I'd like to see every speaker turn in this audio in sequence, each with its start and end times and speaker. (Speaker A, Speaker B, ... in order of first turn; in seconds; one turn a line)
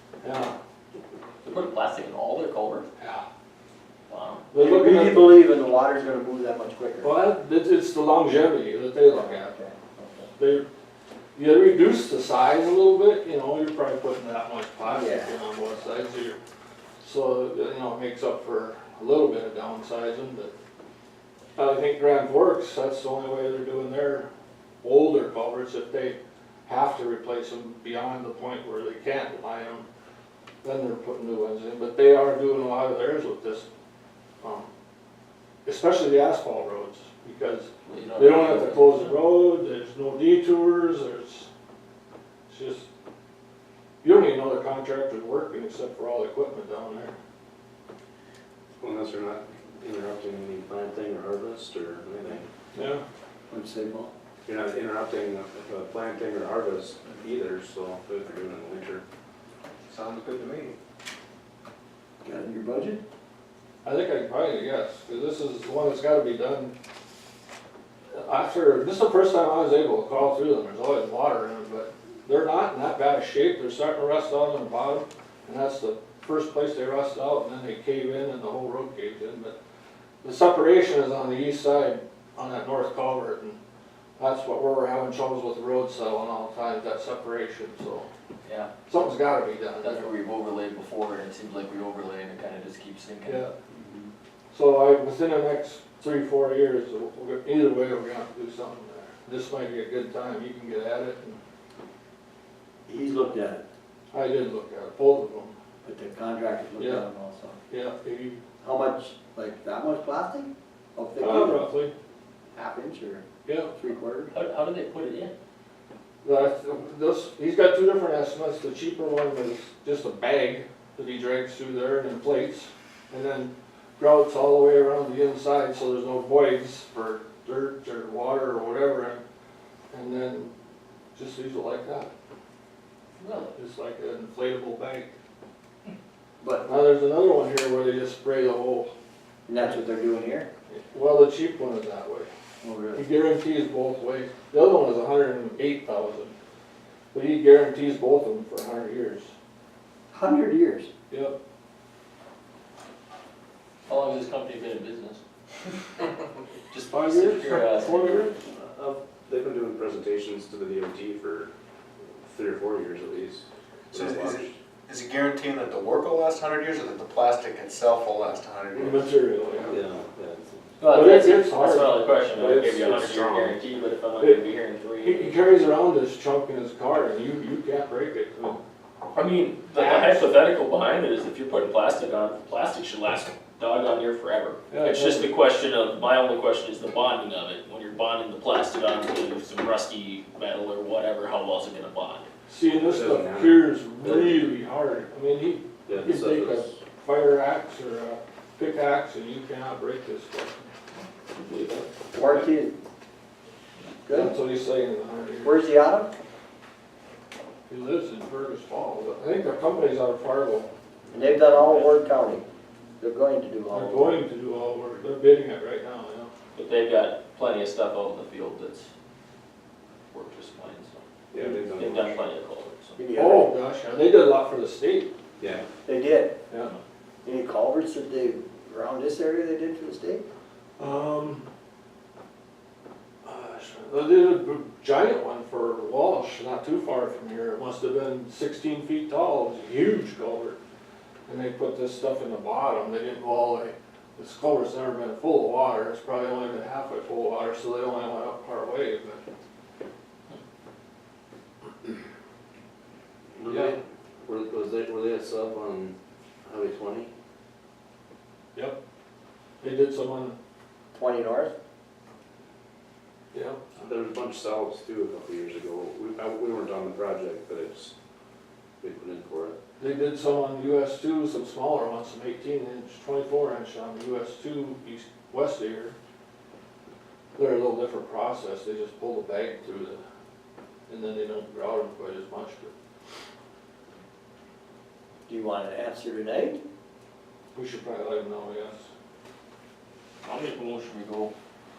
Speaker A: 0.2-0.5
Speaker B: 1.4-2.9
Speaker A: 3.0-3.2
Speaker B: 4.1-4.5
Speaker A: 4.5-5.4
Speaker C: 4.6-7.1
Speaker A: 7.0-9.5
Speaker C: 9.1-10.3
Speaker A: 10.4-10.6
Speaker A: 11.3-16.4
Speaker C: 14.8-15.4
Speaker A: 17.0-20.5
Speaker A: 21.6-24.3
Speaker A: 24.8-29.8
Speaker A: 30.6-33.7
Speaker A: 34.4-34.7
Speaker A: 35.6-41.5
Speaker B: 37.9-39.1
Speaker A: 42.5-42.9
Speaker A: 44.0-47.1
Speaker D: 48.8-52.5
Speaker A: 52.7-53.0
Speaker C: 53.5-54.1
Speaker D: 54.4-59.0
Speaker E: 59.9-60.8
Speaker C: 62.2-63.0
Speaker A: 63.8-66.7
Speaker A: 68.1-79.5
Speaker A: 80.2-83.6
Speaker A: 84.2-88.1
Speaker B: 88.4-88.7
Speaker A: 88.9-90.1
Speaker B: 89.8-93.5
Speaker A: 93.2-93.5
Speaker C: 93.7-94.1
Speaker A: 94.5-101.4
Speaker C: 102.9-103.6
Speaker A: 104.1-105.5
Speaker C: 105.8-107.6
Speaker A: 106.8-107.0
Speaker A: 107.7-108.4
Speaker C: 108.6-111.7
Speaker A: 111.2-111.9
Speaker C: 112.5-114.3
Speaker A: 113.5-113.7
Speaker B: 114.3-115.3
Speaker A: 116.2-129.2
Speaker A: 129.9-130.5
Speaker A: 131.1-132.1
Speaker B: 133.2-133.6
Speaker A: 133.6-135.1
Speaker C: 136.4-136.7
Speaker A: 136.7-138.9
Speaker C: 139.5-140.5
Speaker A: 140.7-142.3
Speaker C: 142.6-143.1
Speaker A: 142.9-146.3
Speaker A: 147.1-149.3
Speaker C: 150.1-150.9
Speaker A: 151.1-151.3
Speaker B: 153.9-155.2
Speaker B: 156.7-158.3
Speaker A: 157.5-158.3
Speaker D: 158.5-161.5
Speaker D: 162.2-164.5
Speaker E: 163.9-169.1
Speaker A: 168.8-169.8
Speaker D: 169.7-170.7
Speaker B: 170.8-175.4
Speaker A: 170.9-172.1
Speaker D: 172.3-173.6
Speaker A: 175.0-178.6
Speaker B: 179.1-192.3
Speaker A: 179.7-180.3
Speaker A: 184.7-185.3
Speaker A: 192.5-200.6
Speaker D: 192.8-194.4
Speaker D: 195.9-196.7
Speaker B: 201.3-201.9
Speaker A: 202.1-202.5
Speaker C: 202.1-202.7
Speaker C: 204.0-204.3
Speaker A: 204.1-205.6
Speaker C: 205.4-206.1
Speaker A: 207.7-210.7
Speaker C: 211.1-212.4
Speaker B: 211.5-211.9
Speaker C: 213.0-214.2
Speaker A: 213.7-216.3
Speaker B: 216.5-218.9
Speaker B: 220.1-221.0
Speaker D: 221.3-222.2
Speaker B: 221.6-223.0
Speaker C: 223.0-223.5
Speaker A: 223.1-225.1
Speaker D: 225.4-225.6
Speaker C: 225.8-226.4
Speaker C: 227.2-230.2
Speaker A: 230.8-231.4
Speaker A: 233.2-240.6
Speaker A: 241.3-249.2
Speaker D: 253.4-257.1
Speaker A: 253.4-253.7
Speaker A: 259.6-260.4
Speaker C: 260.9-261.5
Speaker A: 263.3-263.7
Speaker D: 263.8-267.9
Speaker D: 268.8-269.6
Speaker A: 269.8-275.9
Speaker A: 277.4-280.0
Speaker A: 280.9-282.7
Speaker C: 285.3-286.6
Speaker A: 287.5-288.9
Speaker B: 290.2-291.3